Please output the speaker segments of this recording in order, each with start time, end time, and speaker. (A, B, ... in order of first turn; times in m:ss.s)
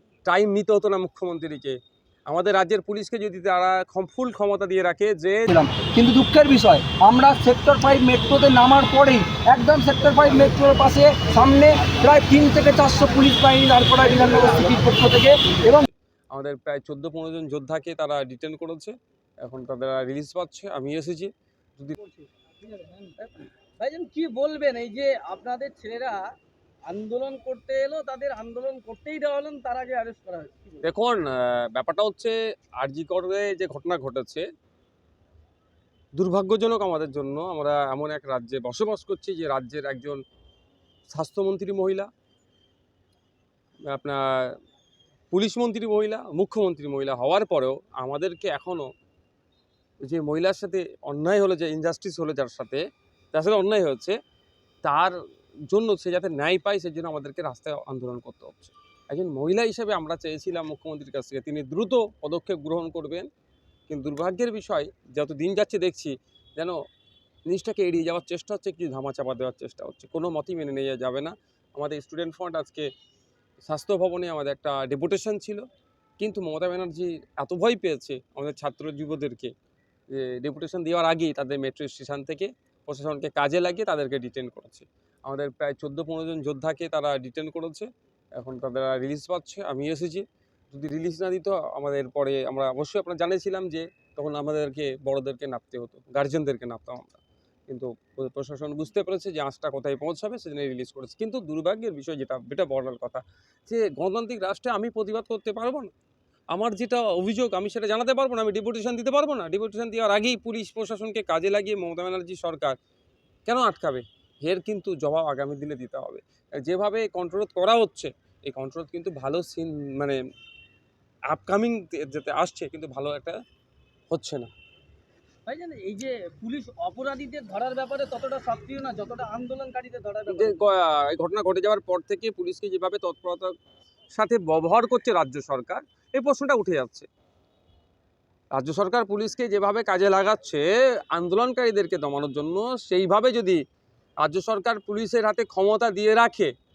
0:00.2-0:01.8 A
0:02.3-0:05.5 A
0:05.5-0:15.9 B
0:16.3-0:18.9 A
0:19.4-0:21.9 A
0:23.2-0:26.2 C
0:26.9-0:30.8 C
0:30.8-0:34.4 A
0:36.1-0:40.2 A
0:41.1-0:42.1 A
0:43.9-0:44.5 A
0:45.3-0:48.8 A
0:50.0-0:52.8 A
0:53.3-0:54.1 A
0:54.8-0:55.1 A
0:55.7-1:03.3 A
1:03.9-1:06.7 A
1:07.5-1:12.9 A
1:13.6-1:15.6 A
1:16.2-1:19.5 A
1:20.1-1:27.9 A
1:28.4-1:45.9 A
1:46.5-1:52.7 A
1:53.5-2:00.2 A
2:01.3-2:03.4 A
2:04.1-2:04.5 A
2:05.4-2:10.6 C
2:10.3-2:13.5 A
2:14.1-2:17.1 A
2:18.5-2:23.6 A
2:24.2-2:26.5 A